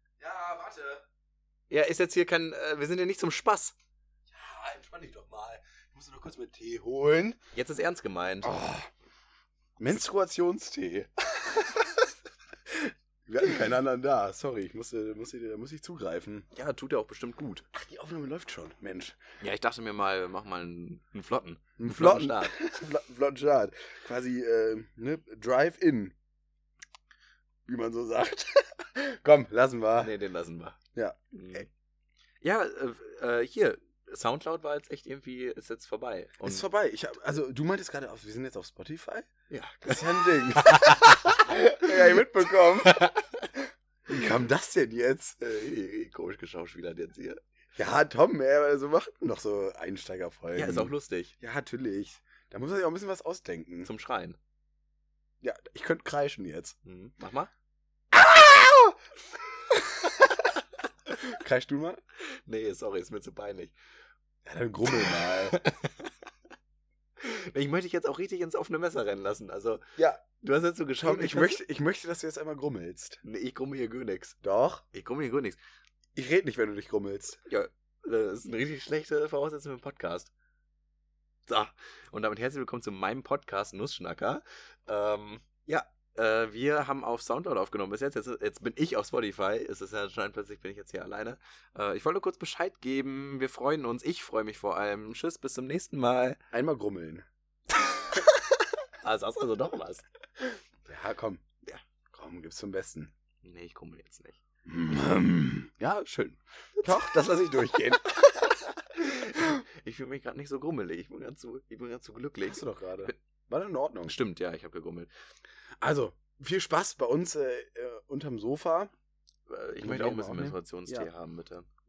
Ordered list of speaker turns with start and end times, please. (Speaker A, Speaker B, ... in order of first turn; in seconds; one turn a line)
Speaker A: 0.2-1.0
Speaker B: 1.7-3.7
Speaker A: 4.3-7.4
Speaker B: 7.5-8.5
Speaker A: 8.4-8.9
Speaker A: 9.8-12.0
Speaker A: 12.7-16.5
Speaker B: 16.5-17.6
Speaker A: 17.7-19.2
Speaker B: 19.4-22.8
Speaker A: 21.8-26.1
Speaker A: 27.6-30.1
Speaker B: 30.0-30.8
Speaker A: 30.9-31.6
Speaker B: 31.3-31.7
Speaker B: 32.4-36.6
Speaker A: 36.4-39.3
Speaker B: 39.5-41.4
Speaker A: 39.8-43.1
Speaker B: 42.9-43.4
Speaker A: 44.1-45.4
Speaker B: 45.4-47.4
Speaker A: 47.8-53.9
Speaker B: 50.5-51.3
Speaker B: 53.8-54.4
Speaker A: 55.4-56.8
Speaker B: 56.8-57.5
Speaker A: 58.1-59.0
Speaker A: 59.7-60.3
Speaker A: 61.2-62.0
Speaker B: 62.4-63.7
Speaker A: 64.4-65.6
Speaker B: 65.1-66.1
Speaker B: 67.2-69.8
Speaker A: 70.0-70.2
Speaker B: 70.3-71.6
Speaker A: 71.0-73.2
Speaker B: 73.2-74.3
Speaker A: 74.4-74.8
Speaker B: 74.9-75.6
Speaker A: 76.2-77.4
Speaker B: 77.4-80.3
Speaker B: 81.5-96.4
Speaker A: 96.5-97.2
Speaker B: 99.0-100.0
Speaker A: 100.8-101.5
Speaker A: 102.1-103.1
Speaker B: 103.4-104.4
Speaker A: 104.7-108.1
Speaker B: 108.1-113.2
Speaker A: 112.5-114.2
Speaker B: 114.0-115.1
Speaker A: 115.8-118.9
Speaker B: 119.5-121.7
Speaker A: 119.8-121.1